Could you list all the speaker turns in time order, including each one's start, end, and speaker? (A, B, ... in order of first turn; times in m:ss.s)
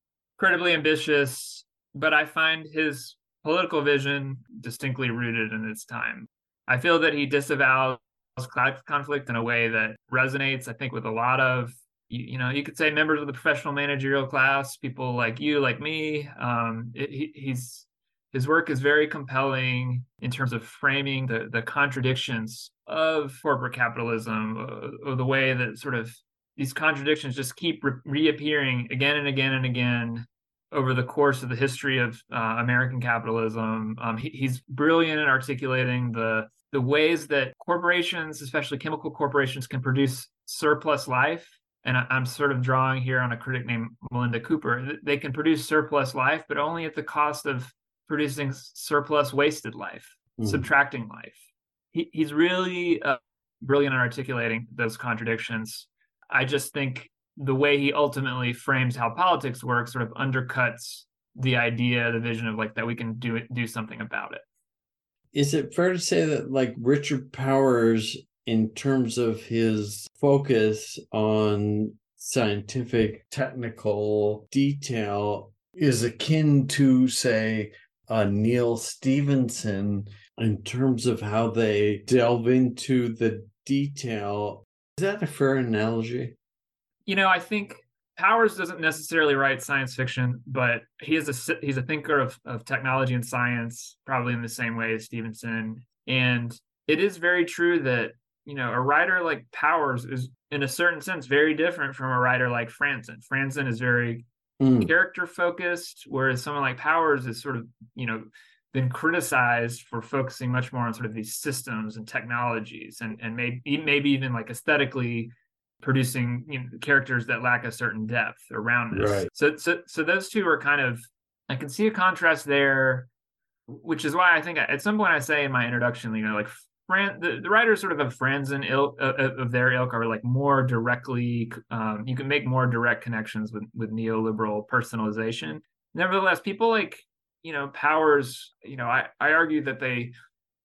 0:00.4-0:51.4 A
0:50.4-0:50.7 B
0:51.9-1:04.4 A
1:05.3-1:26.3 B
1:27.0-1:44.2 A
1:44.6-1:44.9 B
1:44.8-1:55.3 A
1:55.8-2:03.1 A
1:58.9-1:59.3 B
2:03.7-2:20.1 A